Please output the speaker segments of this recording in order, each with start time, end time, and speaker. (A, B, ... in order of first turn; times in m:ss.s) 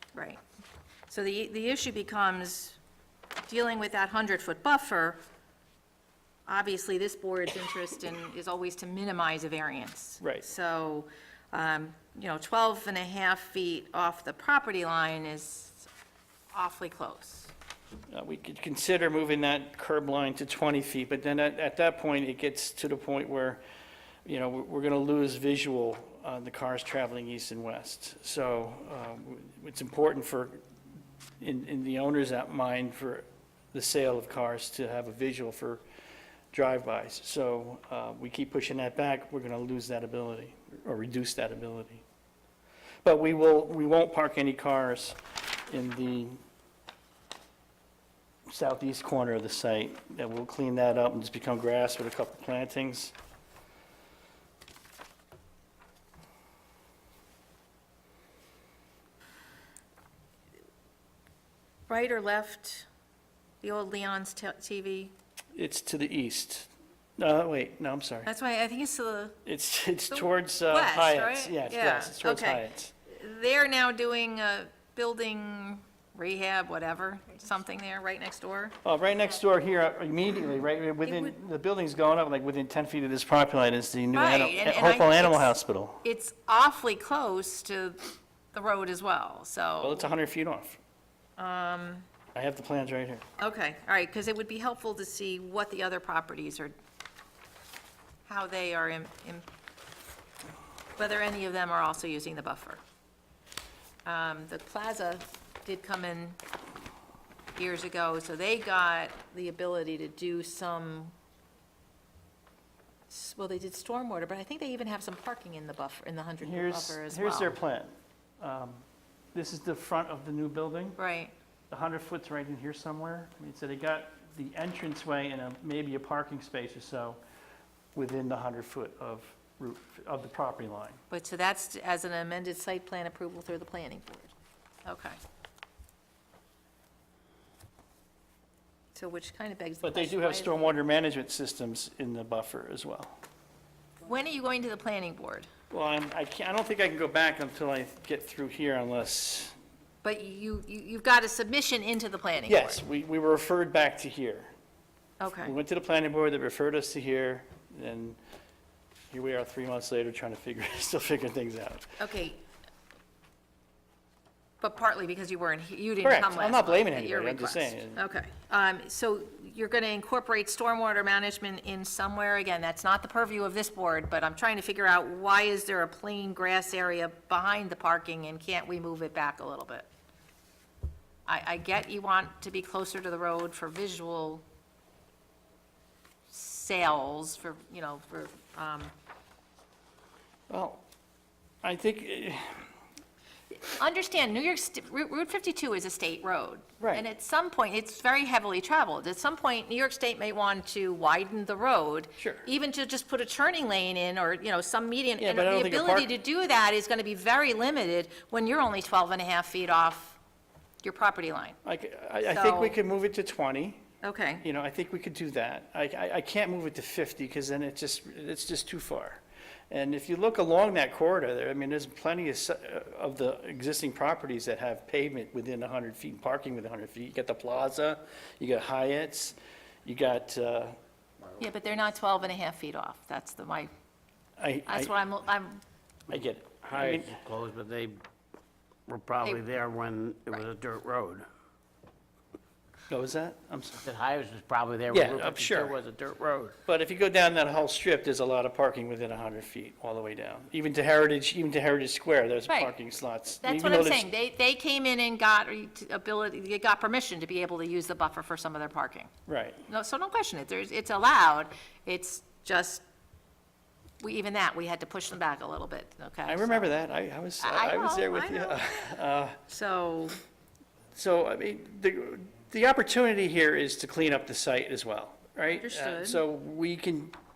0:00.1-0:00.4 A
0:01.1-0:02.8 A
0:03.5-0:05.2 A
0:06.5-0:15.9 A
0:16.5-0:17.5 A
0:18.1-0:23.6 B
0:24.2-0:30.6 B
0:31.4-0:35.8 B
0:36.5-0:42.0 B
0:43.0-0:45.2 B
0:45.7-0:46.4 B
0:48.5-0:53.1 B
1:01.9-1:02.9 A
1:03.6-1:05.1 A
1:05.5-1:08.3 B
1:08.2-1:09.4 A
1:09.4-1:12.9 B
1:10.1-1:18.8 A
1:18.8-1:26.0 B
1:21.0-1:21.3 A
1:24.1-1:30.1 A
1:29.8-1:30.8 B
1:31.4-1:32.1 A
1:32.3-1:33.2 B
1:33.4-1:36.7 A
1:38.3-1:39.5 A
1:41.0-1:42.8 A
1:44.0-1:46.4 A
1:47.6-1:51.1 A
1:53.1-1:57.6 A
1:56.4-1:58.8 B
1:59.3-2:01.0 B
2:01.0-2:01.3 A
2:01.7-2:07.2 B
2:08.0-2:11.0 B
2:11.1-2:14.3 A
2:14.8-2:15.2 A
2:18.9-2:20.7 A
2:19.8-2:23.2 B
2:24.0-2:25.5 A
2:25.7-2:29.5 B
2:30.0-2:32.8 A
2:32.5-2:34.5 B
2:35.2-2:35.5 A
2:35.4-2:38.2 B
2:39.1-2:41.9 B
2:42.0-2:42.4 A
2:44.6-2:59.9 A
2:46.0-2:48.0 B
3:01.3-3:04.4 A
3:06.3-3:08.9 A
3:10.5-3:10.8 B
3:11.6-3:12.7 B
3:13.5-3:30.2 A
3:22.2-3:22.5 B
3:25.2-3:26.1 B
3:30.8-3:31.6 A
3:31.6-3:33.8 B
3:32.2-3:32.8 A
3:34.0-3:34.4 A
3:34.4-3:50.8 B
3:51.4-3:53.7 A
3:54.4-3:54.9 B
3:54.7-3:55.6 A
3:56.1-3:57.2 B
3:56.7-3:58.0 C
3:58.9-4:01.3 C
4:02.9-4:03.9 B
4:03.8-4:06.6 C
4:04.9-4:05.8 B
4:06.7-4:14.1 B
4:12.5-4:12.7 A
4:13.4-4:19.1 A
4:19.3-4:19.6 B
4:19.7-4:22.8 A
4:24.0-4:26.7 A
4:26.3-4:29.4 B
4:27.4-4:28.9 A
4:29.5-4:30.2 A
4:31.0-4:37.1 B
4:35.5-4:36.2 A